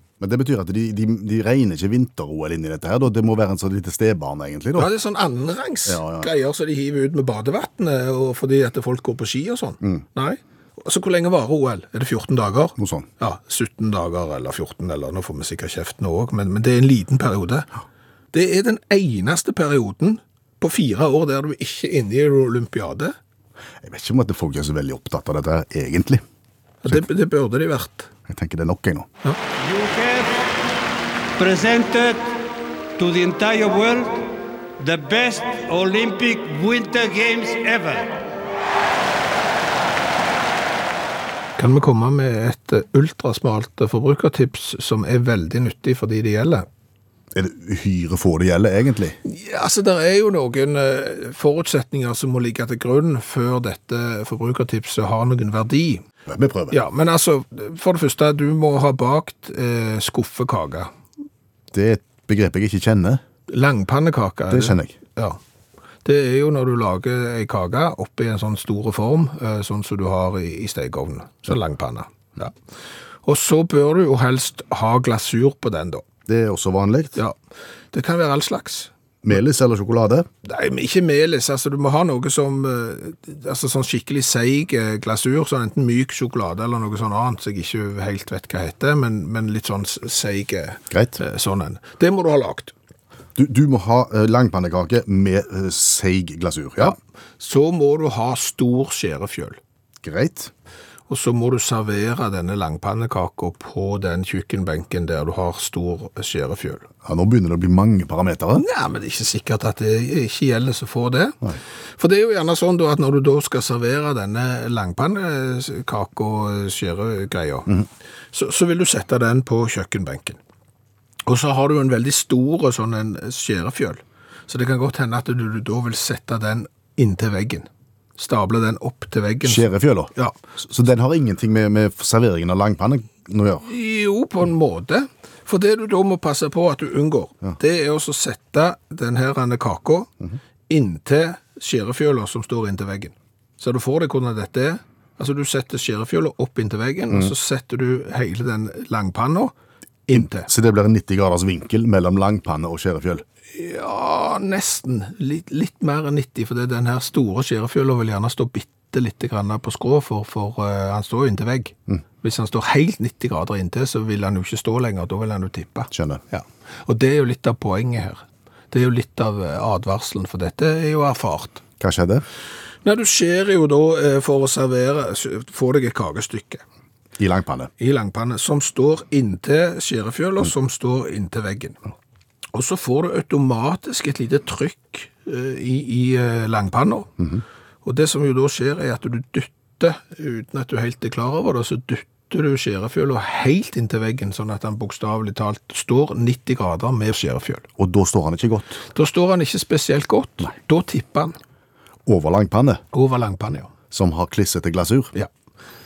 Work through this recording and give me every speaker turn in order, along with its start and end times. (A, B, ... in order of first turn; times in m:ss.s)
0:00.2-0:04.9 A
0:04.8-0:17.7 B
0:05.8-0:06.3 A
0:12.8-0:13.1 A
0:18.3-0:23.1 B
0:23.8-0:26.2 A
0:26.8-0:28.1 B
0:28.3-0:29.1 A
0:29.6-0:30.6 C
0:31.4-0:32.3 C
0:33.0-0:38.2 C
0:41.6-0:46.6 B
0:47.3-0:49.2 A
0:49.2-0:56.0 B
0:56.3-0:56.8 A
0:56.7-1:00.9 B
1:01.7-1:03.2 A
1:03.5-1:05.4 B
1:04.5-1:04.9 A
1:06.0-1:12.5 B
1:13.2-1:16.0 B
1:16.3-1:17.2 A
1:17.9-1:18.9 B
1:19.2-1:20.3 A
1:20.4-1:32.7 B
1:30.9-1:31.2 A
1:33.4-1:37.0 A
1:36.8-1:39.6 B
1:40.0-1:40.5 A
1:41.1-1:46.9 B
1:47.0-1:48.6 A
1:48.6-1:51.5 B
1:52.0-1:57.7 B
1:58.3-2:00.4 B
2:01.2-2:10.3 B
2:09.4-2:13.6 A
2:13.6-2:20.1 B
2:20.7-2:29.5 B
2:30.1-2:30.5 B
2:30.1-2:33.2 A
2:33.5-2:51.6 B
2:45.9-2:46.2 A
2:51.8-2:52.2 A
2:52.8-2:56.6 B
2:57.2-2:57.7 A
2:57.8-3:01.8 B
3:02.5-3:07.1 B
3:07.8-3:17.7 B
3:17.8-3:18.8 A
3:18.9-3:21.4 B
3:22.0-3:22.8 A
3:22.9-3:23.7 B
3:23.9-3:25.1 A